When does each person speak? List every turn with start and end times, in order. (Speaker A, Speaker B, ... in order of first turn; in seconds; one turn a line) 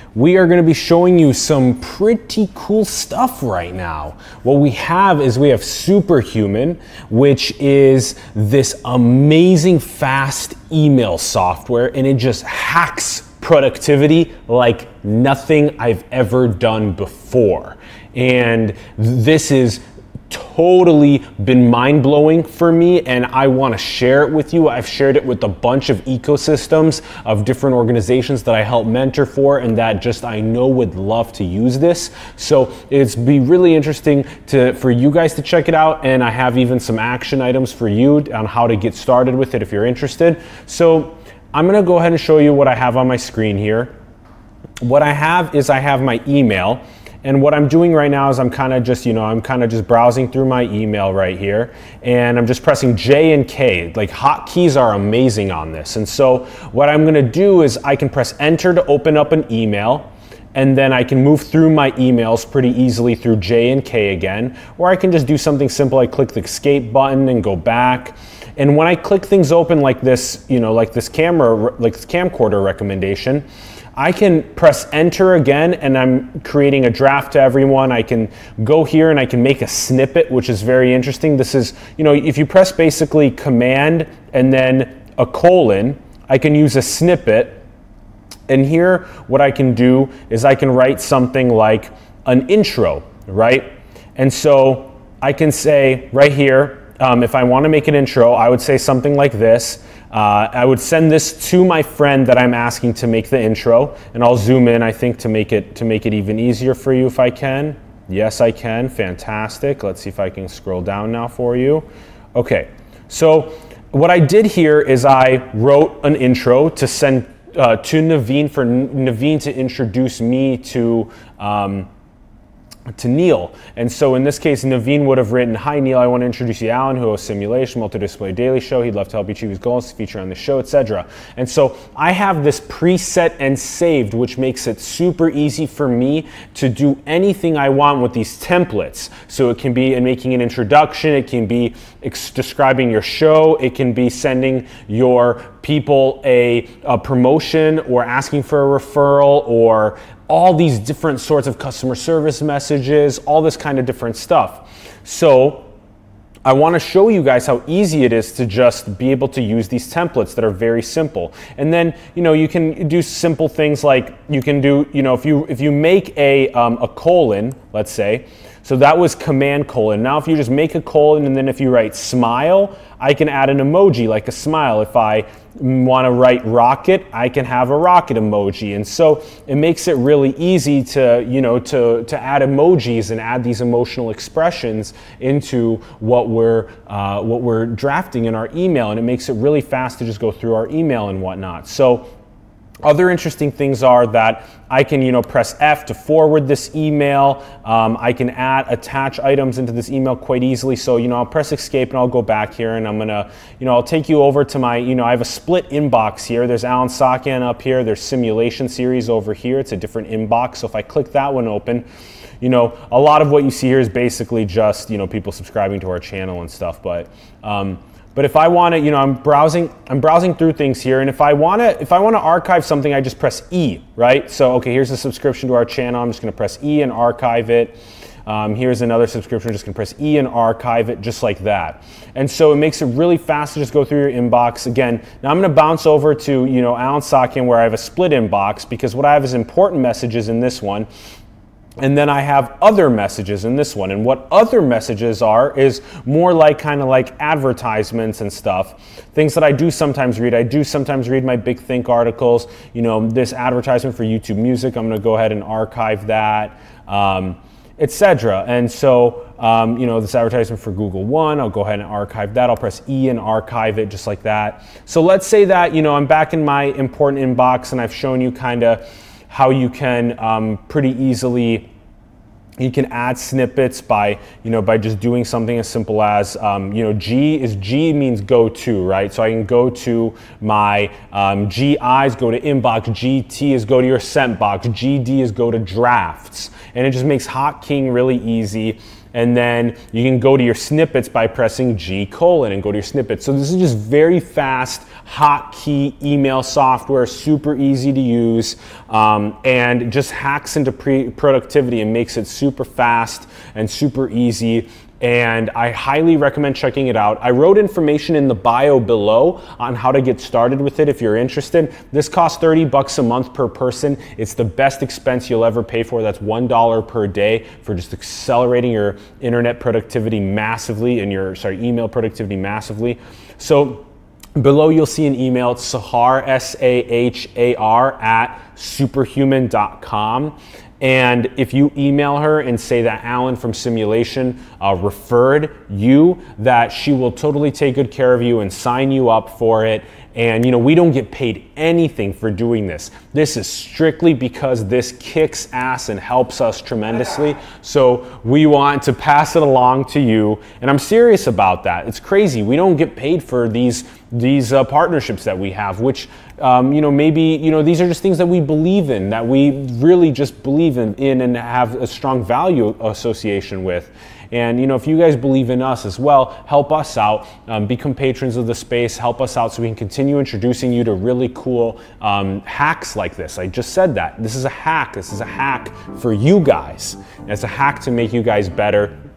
Speaker A: 0.1-43.9
Speaker A: 44.8-87.6
Speaker A: 88.5-121.9
Speaker A: 122.9-155.7
Speaker A: 156.4-192.1
Speaker A: 192.8-211.8
Speaker A: 212.4-240.9
Speaker A: 241.8-271.7
Speaker A: 272.6-323.9
Speaker A: 324.4-378.9